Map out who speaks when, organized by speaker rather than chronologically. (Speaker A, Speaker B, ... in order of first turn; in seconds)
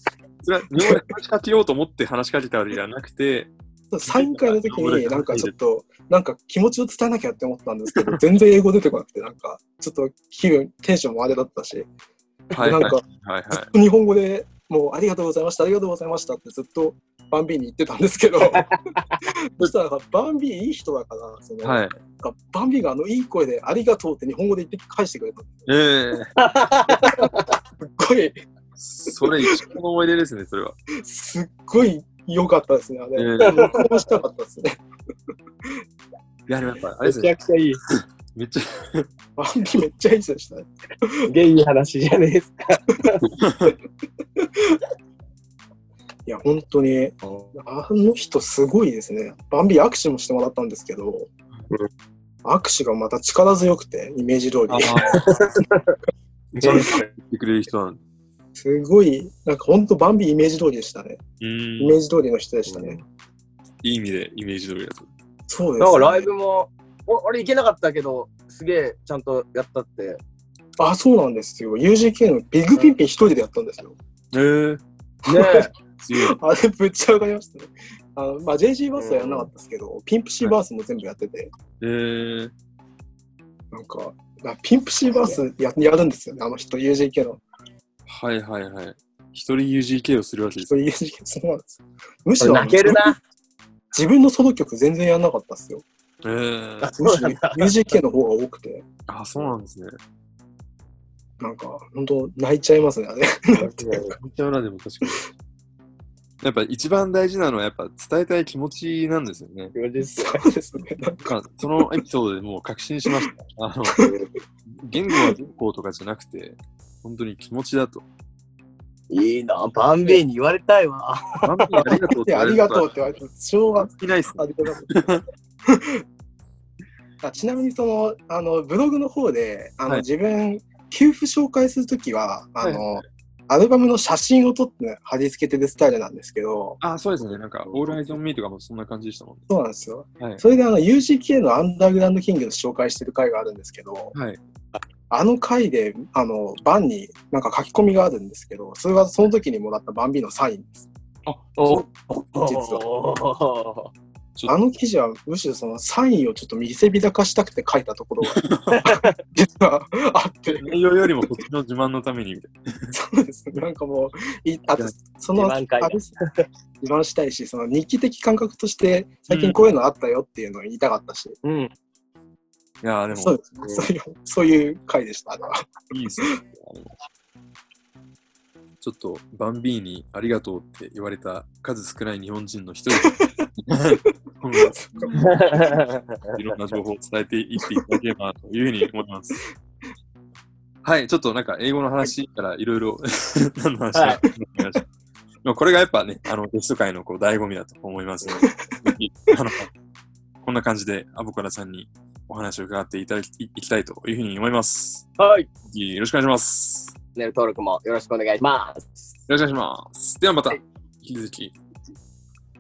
Speaker A: 0.4-3.5, 4.1-5.5, 12.5-13.7, 21.6-21.9, 25.7-26.3, 28.8-30.8, 33.2-33.8, 36.5-37.3, 37.9-39.1, 43.4-43.7, 54.7-55.2, 56.6-58.0, 61.4-62.0, 63.8-65.1, 74.3-74.8, 76.0-76.3, 81.8-82.5, 88.1-90.8, 96.2-97.0, 99.1-99.9, 104.1-105.2, 106.4-109.7, 111.2-114.0, 114.8-118.0, 121.4-122.9, 123.8-125.2, 132.6-133.1, 136.8-139.5, 144.1-144.4, 151.3-151.9, 158.2-158.8, 160.5-162.9, 169.3-169.7, 172.8-173.4, 175.9-176.9, 178.8-185.4, 186.3-189.4, 190.8-194.8, 195.4-199.7, 200.4-205.1, 205.7-206.9, 209.3-211.6
Speaker B: 0.8-1.1, 3.9-11.9, 12.6-25.6, 26.9-28.4, 29.1-29.6, 31.0-34.8, 39.4-41.1, 44.4-44.8, 46.3-51.3, 52.5-55.3, 56.6-57.0, 58.6-61.2, 61.8-63.0, 65.5-66.3, 70.8-74.0, 75.3-81.5, 83.7-87.4, 90.6-93.2, 93.9-95.8, 97.0-98.8, 101.4-104.2, 110.0-111.9, 121.8-126.0, 127.2-136.8, 139.5-144.1, 145.1-150.9, 152.4-152.8, 154.5-161.3, 162.9-166.2, 166.8-171.4, 173.1-176.3, 183.0-183.5, 184.1-185.6, 198.4-198.9
Speaker C: 26.4-27.4, 33.5-34.1, 37.0-37.8, 41.3-43.3, 55.1-56.0, 56.6-57.0, 62.7-63.0, 65.8-70.2, 75.3-75.7, 79.0-79.5, 92.4-93.2, 96.8-97.7, 103.7-104.2, 109.7-110.4, 119.1-121.5, 151.6-153.9, 158.7-159.1, 165.3-166.4, 171.4-171.7, 185.2-186.4, 193.9-194.2, 205.2-205.5, 207.2-209.2